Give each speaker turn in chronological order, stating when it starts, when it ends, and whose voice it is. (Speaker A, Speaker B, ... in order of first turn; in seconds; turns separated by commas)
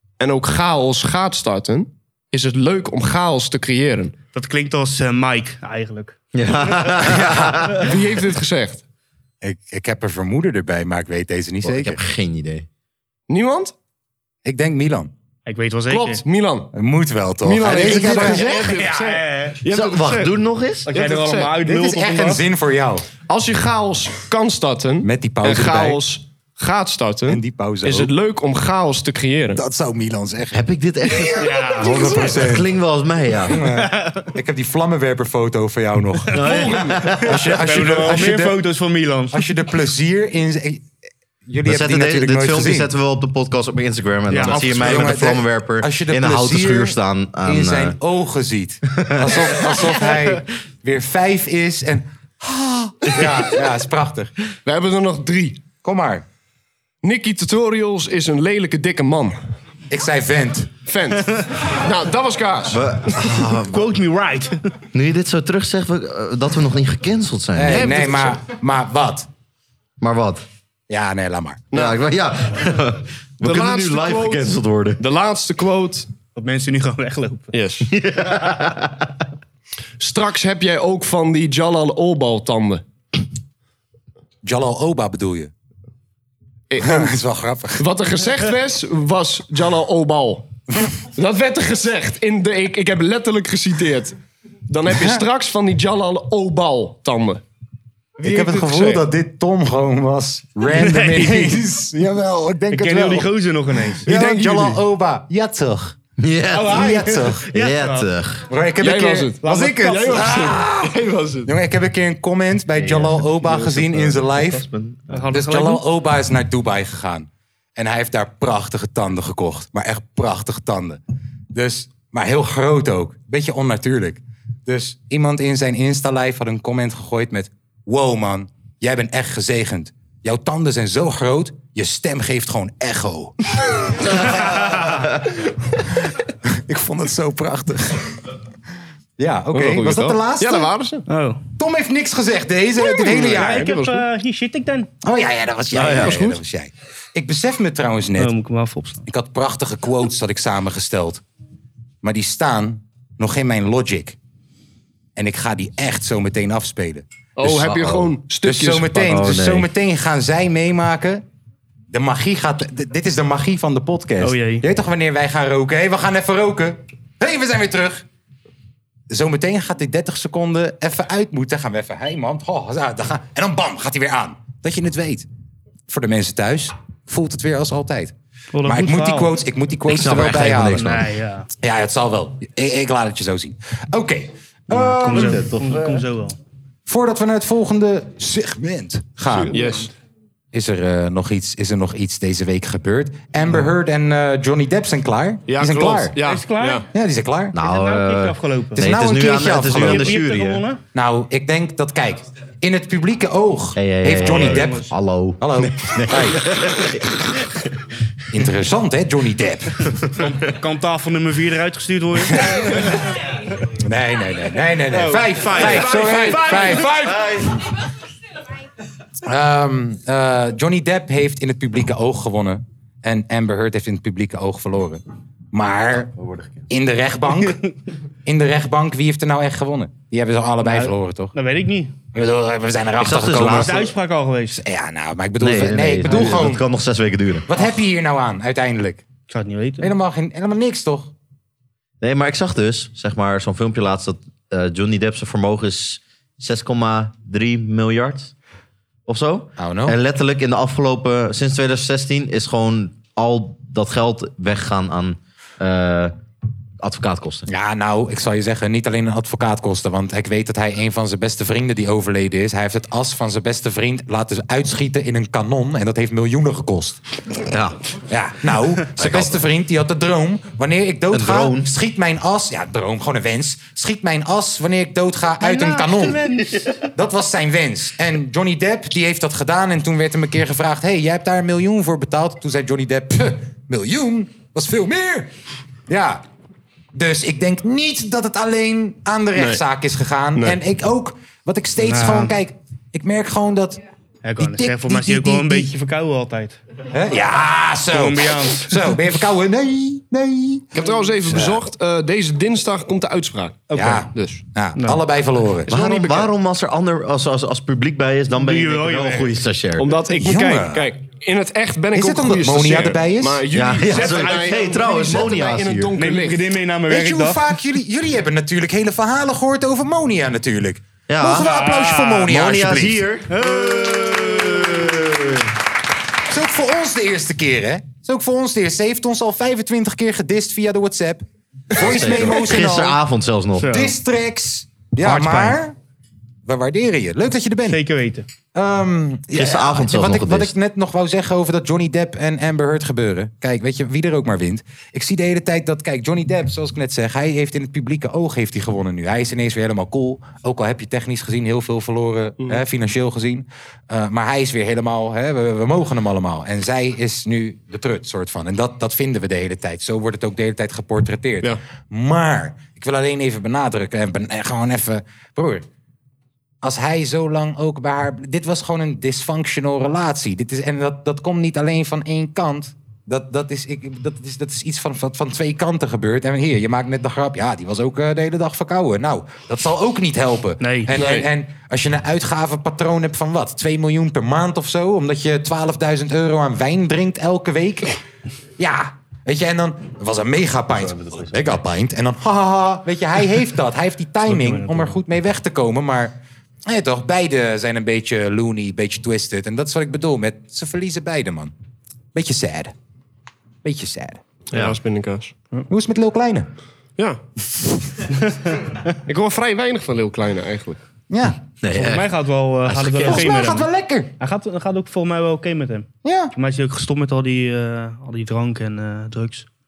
Speaker A: 0.2-4.1, Speaker B: 4.3-6.2, Speaker C: 6.3-7.9, Speaker A: 7.8-8.8, Speaker D: 9.4-12.0, Speaker C: 11.6-12.7, Speaker A: 13.3-13.7, Speaker D: 14.4-15.1, Speaker B: 15.5-16.2, Speaker A: 15.9-16.7, Speaker D: 16.7-19.0, Speaker A: 17.4-21.6, Speaker B: 18.8-19.6, Speaker C: 19.6-20.9, Speaker B: 20.9-22.4, Speaker D: 21.6-23.1, Speaker A: 23.3-29.6, Speaker D: 25.0-26.0, Speaker D: 27.3-28.1, Speaker D: 29.6-30.6, Speaker C: 30.5-33.6, Speaker A: 31.4-32.3, Speaker B: 31.4-31.8, Speaker D: 31.8-32.7, Speaker D: 33.5-36.5, Speaker B: 36.3-39.5, Speaker A: 36.4-37.0, Speaker C: 36.6-37.4, Speaker D: 37.2-38.6, Speaker D: 39.3-40.9, Speaker D: 41.5-42.9, Speaker C: 41.6-48.0, Speaker B: 44.3-45.1, Speaker D: 44.4-54.3, Speaker C: 49.1-50.0, Speaker A: 54.6-55.6, Speaker D: 55.8-56.2, Speaker A: 57.0-59.4, Speaker D: 59.9-60.7, Speaker A: 60.9-62.8, Speaker C: 62.7-63.9, Speaker B: 63.4-64.6, Speaker C: 64.9-68.0, Speaker D: 67.6-69.3, Speaker A: 67.7-68.3, Speaker C: 70.0-70.4, Speaker D: 70.9-71.7, Speaker A: 71.7-72.0, Speaker C: 71.7-75.0, Speaker A: 73.4-76.1, Speaker B: 76.3-77.5, Speaker A: 77.5-77.9, Speaker C: 77.9-79.0, Speaker A: 80.0-82.8, Speaker D: 84.4-85.5, Speaker A: 86.7-87.2, Speaker D: 86.8-87.9, Speaker A: 87.8-90.5, Speaker A: 91.2-94.2, Speaker A: 94.7-97.4, Speaker D: 94.9-95.2, Speaker D: 98.2-103.3, Speaker B: 98.3-99.0, Speaker A: 98.4-99.0, Speaker B: 100.7-101.6, Speaker B: 102.7-104.1, Speaker D: 104.0-106.0, Speaker A: 104.1-104.8, Speaker C: 106.2-108.5, Speaker B: 106.5-108.1, Speaker D: 106.7-107.4, Speaker D: 108.5-114.7, Speaker A: 108.8-111.5, Speaker B: 109.4-110.4, Speaker C: 112.8-115.3, Speaker B: 115.1-115.8, Speaker D: 115.3-121.0, Speaker D: 121.5-133.3, Speaker D: 134.1-134.7, Speaker D: 136.4-138.1, Speaker D: 139.2-140.7, Speaker A: 139.5-141.0, Speaker B: 141.1-141.4, Speaker D: 141.6-143.7, Speaker A: 142.8-144.1, Speaker B: 143.2-144.9, Speaker D: 145.0-148.3, Speaker C: 145.7-146.4, Speaker B: 148.2-149.0, Speaker D: 149.1-151.2, Speaker D: 152.0-154.2, Speaker D: 155.2-157.1, Speaker A: 157.4-159.1, Speaker C: 157.4-158.2, Speaker D: 158.4-161.2, Speaker C: 158.9-159.7, Speaker D: 161.9-168.1, Speaker B: 164.2-164.6, Speaker D: 169.1-175.3, Speaker D: 175.9-181.0, Speaker B: 178.5-179.4, Speaker C: 179.9-180.9, Speaker B: 180.7-181.5, Speaker D: 181.6-185.5, Speaker C: 184.7-186.0, Speaker B: 184.7-186.4, Speaker D: 186.9-189.6, Speaker A: 189.3-189.9, Speaker B: 189.5-189.9, Speaker D: 190.5-196.2, Speaker A: 195.5-196.9, Speaker B: 196.2-196.8, Speaker D: 196.9-197.6, Speaker C: 197.5-200.6, Speaker B: 197.6-200.8, Speaker D: 198.8-200.2, Speaker D: 200.9-206.4, Speaker C: 203.8-207.1, Speaker B: 204.2-204.9, Speaker D: 208.3-209.9, Speaker B: 210.2-212.8, Speaker D: 212.3-212.8, Speaker D: 213.8-217.4, Speaker B: 214.9-216.6, Speaker A: 215.6-217.0, Speaker C: 216.3-217.5, Speaker D: 219.2-226.1, Speaker C: 226.2-226.6, Speaker D: 226.7-227.6, Speaker D: 228.2-231.3, Speaker B: 230.6-231.9, Speaker D: 232.1-233.9, Speaker C: 233.0-233.8, Speaker B: 233.4-234.6, Speaker D: 234.6-236.6, Speaker C: 235.4-237.5, Speaker B: 236.1-236.5, Speaker D: 237.5-239.0, Speaker B: 239.3-239.9, Speaker D: 239.8-241.1, Speaker C: 242.0-248.3, Speaker C: 249.1-256.1, Speaker D: 249.6-250.0, Speaker C: 256.8-257.5, Speaker D: 257.5-267.0, Speaker C: 267.5-267.8, Speaker D: 268.1-276.3, Speaker C: 269.0-269.4, Speaker C: 271.1-271.6, Speaker B: 275.4-276.5, Speaker C: 276.3-276.7, Speaker D: 276.9-285.3, Speaker D: 285.9-286.2, Speaker D: 286.9-293.8, Speaker A: 289.4-289.6, Speaker B: 291.8-292.4, Speaker B: 294.2-296.6, Speaker D: 294.4-295.7, Speaker D: 296.9-301.6, Speaker B: 297.9-298.8, Speaker A: 300.7-304.4, Speaker B: 303.7-304.1, Speaker D: 303.7-305.8, Speaker B: 304.8-305.0, Speaker C: 305.7-309.9, Speaker A: 305.8-306.2, Speaker B: 308.4-309.3, Speaker A: 309.8-316.4, Speaker D: 310.2-310.9, Speaker D: 311.9-313.4, Speaker C: 313.5-315.9, Speaker B: 314.0-314.7, Speaker B: 315.9-317.5, Speaker D: 316.9-323.1, Speaker C: 321.1-321.5, Speaker B: 321.4-322.3, Speaker C: 322.2-325.4, Speaker B: 323.3-324.9, Speaker D: 326.3-333.0, Speaker C: 331.8-333.9, Speaker B: 333.6-333.9, Speaker D: 333.6-335.8, Speaker C: 335.0-335.6, Speaker D: 336.4-337.8, Speaker B: 337.7-338.3, Speaker D: 338.5-365.6, Speaker C: 339.3-340.5, Speaker D: 366.6-388.0, Speaker B: 380.6-380.9, Speaker A: 380.9-381.3, Speaker D: 388.6-396.1, Speaker C: 390.9-391.5, Speaker B: 394.3-395.0, Speaker D: 396.7-401.5, Speaker D: 402.1-402.7, Speaker D: 403.6-404.2, Speaker A: 404.5-405.3, Speaker C: 404.5-404.8, Speaker D: 405.7-406.5, Speaker A: 407.0-407.2, Speaker A: 409.1-410.8, Speaker D: 411.1-411.4, Speaker C: 411.6-413.3, Speaker B: 411.8-413.7, Speaker D: 413.0-414.1, Speaker B: 414.2-419.5, Speaker D: 416.0-416.3